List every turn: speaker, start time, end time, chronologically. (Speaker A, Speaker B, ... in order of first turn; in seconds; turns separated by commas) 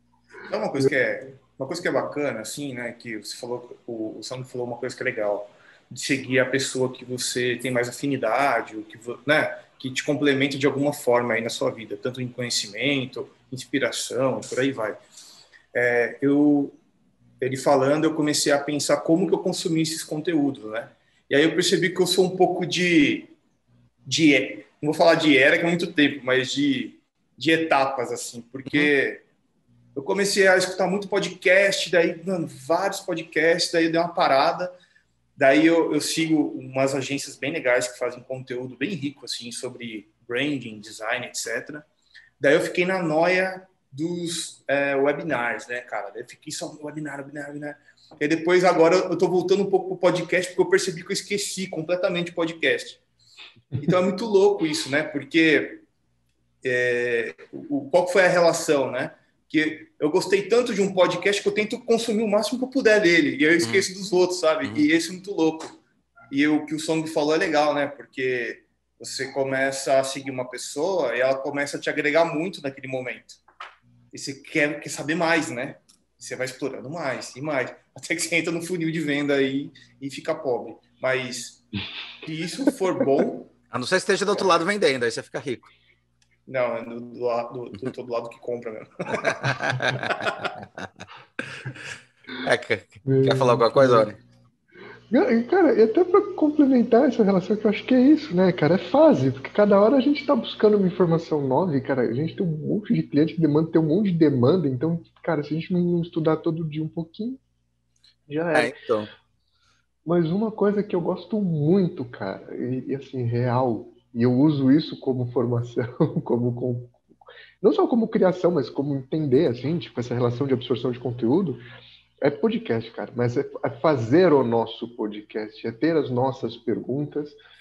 Speaker A: 0.5-15.0, Speaker A: 15.7-16.8, Speaker A: 17.4-23.3, Speaker A: 24.1-29.2, Speaker A: 29.9-34.8, Speaker A: 35.4-41.9, Speaker A: 42.4-53.0, Speaker A: 53.8-55.8, Speaker A: 56.6-65.8, Speaker B: 63.6-63.9, Speaker A: 66.3-73.4, Speaker A: 74.1-81.7, Speaker A: 82.2-83.5, Speaker B: 83.7-85.7, Speaker A: 86.5-90.5, Speaker B: 89.2-90.3, Speaker B: 92.4-94.2, Speaker C: 93.1-94.1, Speaker C: 95.1-107.4, Speaker C: 108.3-108.8, Speaker B: 108.5-109.1, Speaker C: 110.0-117.0, Speaker C: 117.6-121.6, Speaker C: 122.2-127.4